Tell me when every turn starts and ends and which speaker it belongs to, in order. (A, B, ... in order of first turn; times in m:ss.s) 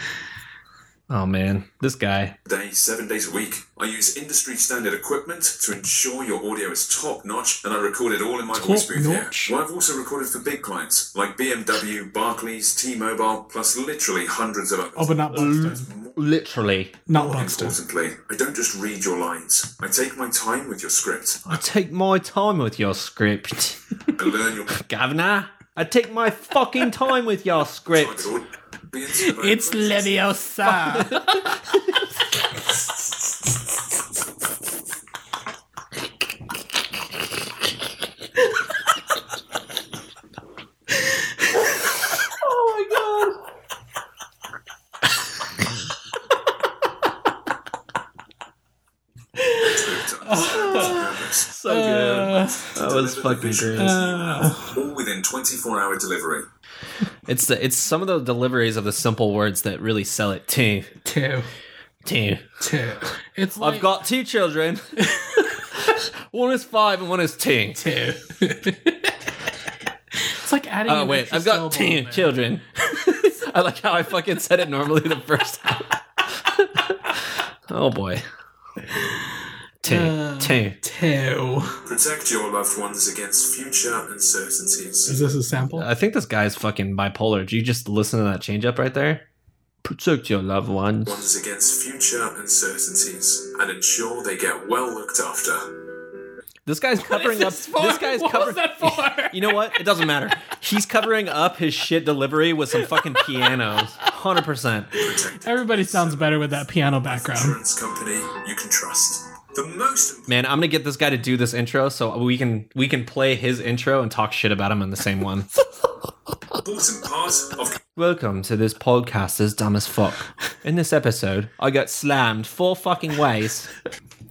0:01.1-0:02.4 A
0:02.5-0:16.2 B
0:08.5-0:09.6 C
0:15.0-0:15.9 C
0:15.4-0:17.0 A
0:17.1-0:17.8 C
0:17.1-0:21.5 B
0:21.5-0:23.8 A
0:24.1-0:24.8 B
0:24.7-0:28.3 A
0:27.9-0:30.3 B
0:29.2-0:31.5 C
0:30.6-0:32.0 A
0:42.3-0:43.4 A
0:49.4-0:51.1 C
0:49.6-0:51.5 B
0:50.6-0:54.0 A
0:51.6-0:52.8 C
0:52.7-0:56.5 B
0:53.8-0:54.8 C
0:57.3-1:00.9 A
1:01.0-1:01.5 C
1:02.0-1:02.5 A
1:02.6-1:03.9 C
1:03.6-1:05.1 A
1:05.0-1:05.6 C
1:05.7-1:07.8 A
1:07.8-1:09.1 C
1:10.2-1:12.3 C
1:10.9-1:18.2 A
1:18.9-1:19.3 C
1:19.8-1:20.8 A
1:19.8-1:21.8 C
1:21.9-1:25.2 B
1:25.1-1:25.9 C
1:25.8-1:29.3 A
1:29.8-1:31.3 A
1:31.0-1:35.7 B
1:36.7-1:45.1 A
1:37.0-1:39.6 C
1:43.0-1:43.5 C
1:45.0-1:50.3 B
1:45.4-1:47.6 C
1:50.3-1:55.5 A
1:56.6-1:57.8 B
1:58.0-2:03.7 A